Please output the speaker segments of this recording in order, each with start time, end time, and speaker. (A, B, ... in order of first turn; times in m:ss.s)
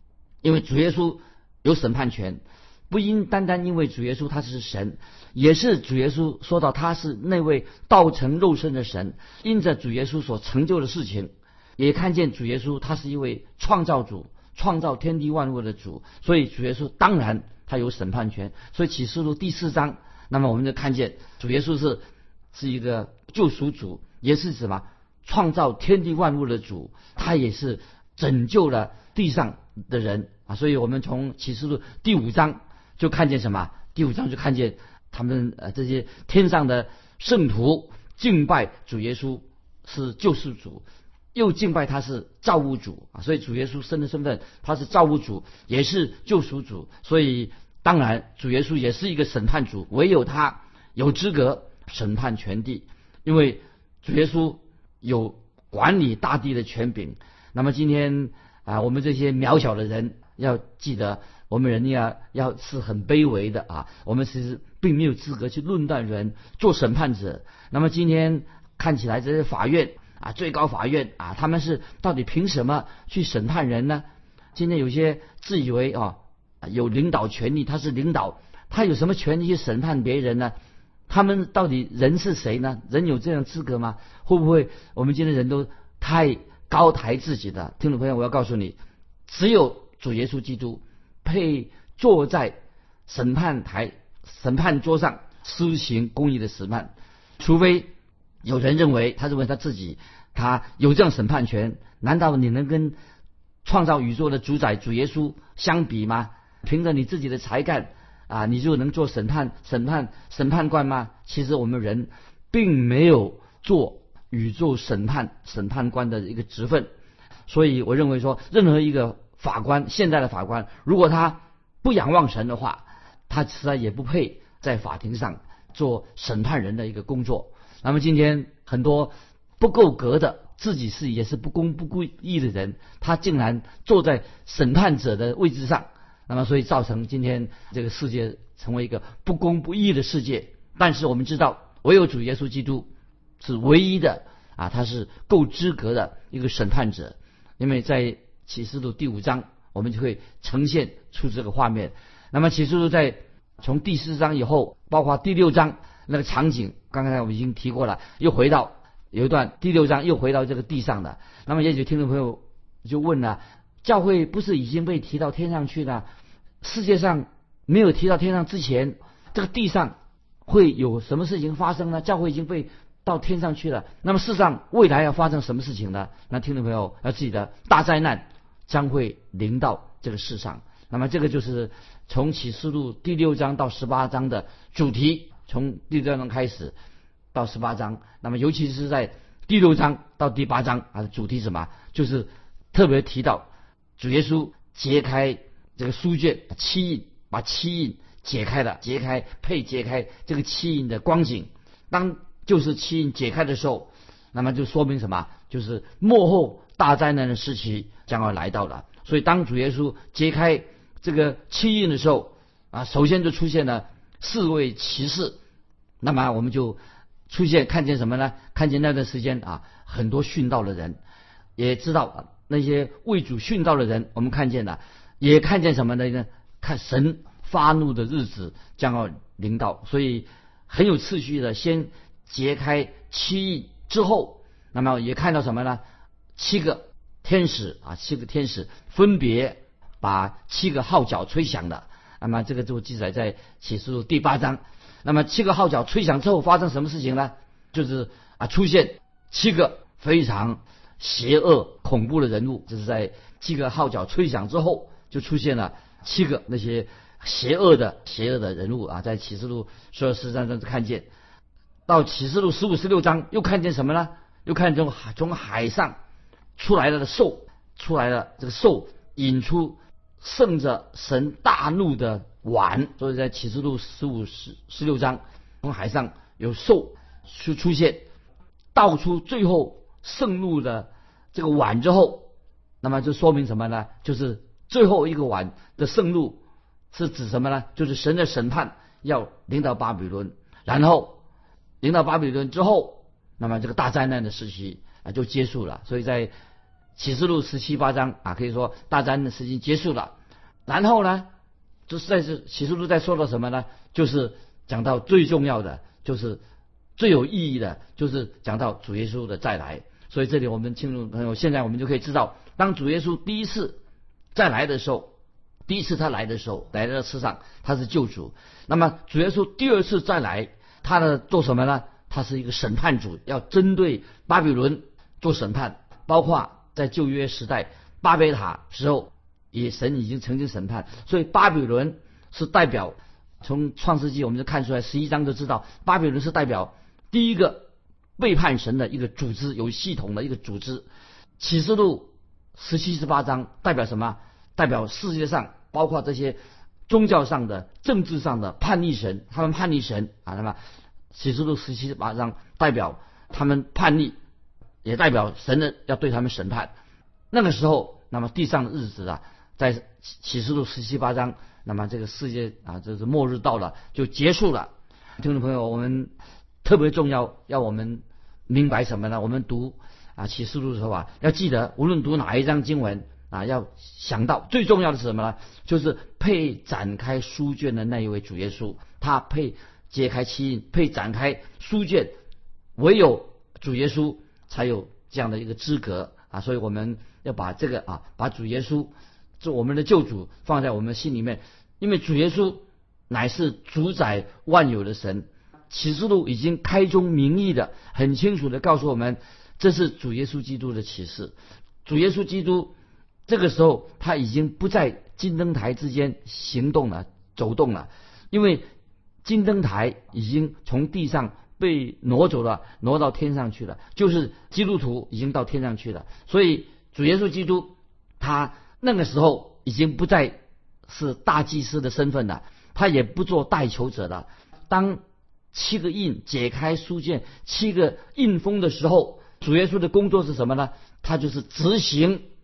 0:00.4-0:22.0 A
0:22.5-0:40.8 A
0:41.4-1:14.0 A
1:14.6-1:20.5 A
1:21.1-1:28.8 A
1:29.3-1:32.6 A
1:33.1-1:37.9 A
1:38.4-1:43.0 A
1:43.6-1:56.9 A
1:57.5-2:22.9 A
2:23.4-2:46.0 A
2:46.6-2:50.0 A
2:50.5-3:06.7 A
3:07.3-3:13.5 A
3:14.0-3:35.4 A
3:36.0-3:41.0 A
3:41.6-3:55.8 A
3:56.4-4:21.1 A
4:21.9-4:26.0 A
4:26.6-4:38.0 A
4:38.8-4:42.3 A
4:42.8-4:46.4 A
4:46.9-4:51.2 A
4:51.8-4:56.3 A
4:57.0-5:00.1 A
5:00.7-5:01.3 A
5:01.9-5:06.4 A
5:07.0-5:13.8 A
5:14.4-5:15.1 A
5:15.7-5:37.7 A
5:38.2-5:40.9 A
5:41.4-5:46.4 A
5:46.9-5:50.6 A
5:51.1-5:54.2 A
5:54.8-5:56.7 A
5:57.3-6:06.1 A
6:06.6-6:22.1 A
6:22.8-6:42.7 A
6:43.3-6:48.6 A
6:49.2-7:05.0 A
7:05.5-7:12.2 A